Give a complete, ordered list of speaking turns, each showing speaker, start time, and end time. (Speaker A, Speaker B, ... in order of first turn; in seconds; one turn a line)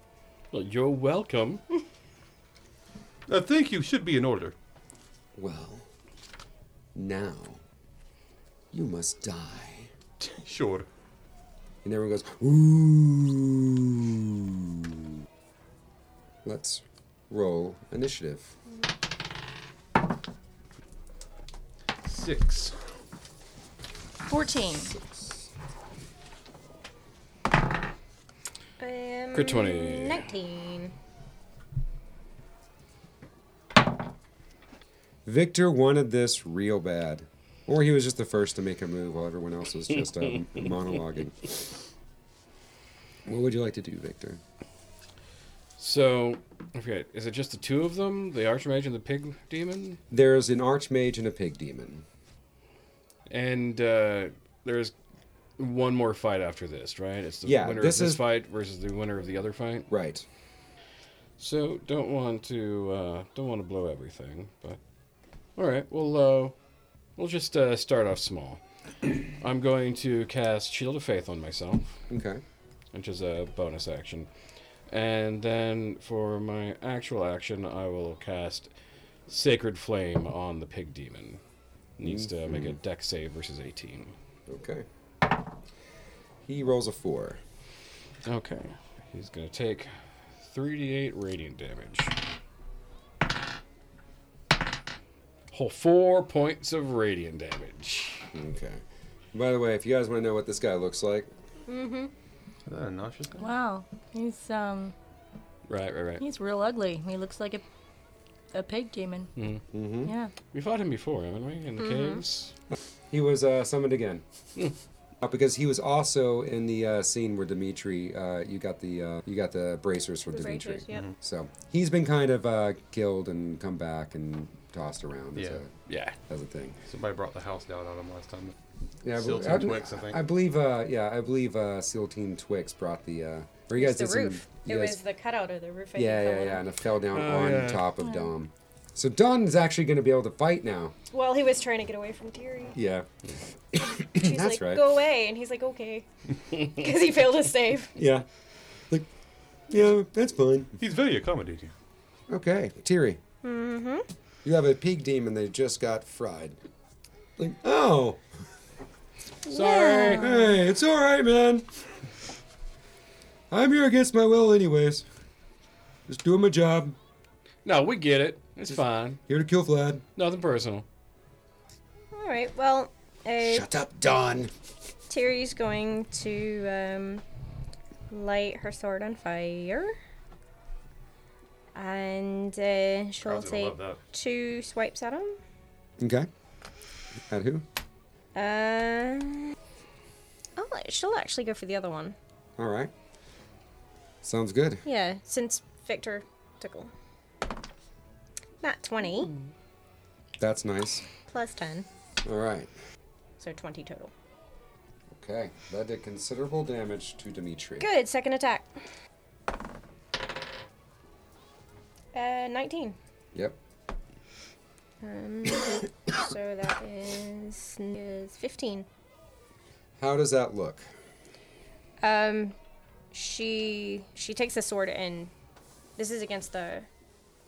Speaker A: 0.5-1.6
Speaker B: 3.3-4.5
Speaker C: 5.3-5.9
Speaker C: 6.9-7.6
Speaker C: 8.7-9.9
Speaker B: 10.2-10.9
Speaker C: 11.8-15.1
Speaker C: 16.4-18.5
Speaker B: 22.0-22.8
Speaker D: 24.3-24.9
Speaker C: 24.9-25.4
Speaker E: 28.8-30.9
Speaker A: 29.3-30.2
Speaker C: 35.2-41.7
Speaker C: 43.2-44.4
Speaker A: 45.8-50.0
Speaker C: 50.1-52.0
Speaker A: 53.3-54.9
Speaker A: 55.6-59.9
Speaker C: 57.4-58.2
Speaker C: 59.9-60.2
Speaker A: 61.4-64.8
Speaker A: 65.5-66.5
Speaker A: 67.2-68.6
Speaker A: 69.4-72.1
Speaker C: 72.1-72.4
Speaker A: 72.9-74.3
Speaker A: 74.9-78.7
Speaker A: 79.3-81.4
Speaker A: 82.0-84.1
Speaker C: 82.0-82.8
Speaker C: 84.5-84.9
Speaker C: 86.5-87.4
Speaker A: 88.2-92.1
Speaker A: 95.5-98.3
Speaker C: 98.3-98.8
Speaker C: 99.3-101.3
Speaker E: 101.7-102.1
Speaker B: 102.7-103.5
Speaker D: 103.4-104.9
Speaker A: 105.7-106.2
Speaker D: 106.2-107.6
Speaker D: 108.5-109.3
Speaker A: 109.3-109.6
Speaker C: 109.7-110.1
Speaker D: 110.0-110.3
Speaker A: 110.5-112.5
Speaker E: 111.8-112.2
Speaker C: 113.1-114.2
Speaker C: 115.2-125.7
Speaker E: 120.3-121.0
Speaker B: 125.3-125.6
Speaker A: 125.9-126.2
Speaker C: 126.3-126.8
Speaker B: 126.9-128.5
Speaker C: 129.0-135.0
Speaker B: 129.1-130.2
Speaker E: 133.8-136.6
Speaker C: 135.9-140.9
Speaker A: 137.1-137.9
Speaker D: 138.0-138.3
Speaker E: 141.1-142.8
Speaker C: 142.7-143.1
Speaker C: 143.7-144.8
Speaker E: 144.0-147.9
Speaker C: 147.9-148.3
Speaker C: 149.7-150.7
Speaker B: 150.8-151.7
Speaker C: 152.3-153.2
Speaker E: 153.4-154.1
Speaker C: 154.4-156.6
Speaker C: 157.4-158.2
Speaker A: 159.5-160.4
Speaker E: 159.5-160.5
Speaker C: 160.1-161.7
Speaker C: 163.5-165.1
Speaker C: 166.1-167.0
Speaker A: 167.6-169.2
Speaker C: 169.3-170.0
Speaker A: 170.2-170.8
Speaker E: 172.1-173.6
Speaker C: 173.4-174.5
Speaker E: 175.1-177.2
Speaker E: 178.1-179.9
Speaker E: 181.7-185.4
Speaker B: 183.2-184.0
Speaker C: 186.0-186.3
Speaker C: 187.3-187.6
Speaker E: 188.3-189.5
Speaker E: 190.6-192.2
Speaker C: 192.6-192.9
Speaker C: 194.2-194.8
Speaker E: 194.8-196.9
Speaker E: 198.6-199.4
Speaker C: 200.4-201.0
Speaker E: 201.3-201.9
Speaker C: 202.2-202.7
Speaker E: 203.4-204.1
Speaker C: 205.1-207.9
Speaker E: 207.8-208.8
Speaker E: 212.1-213.0
Speaker E: 215.0-218.9
Speaker C: 220.0-220.8
Speaker E: 222.0-222.6
Speaker E: 223.1-225.3
Speaker E: 226.0-226.9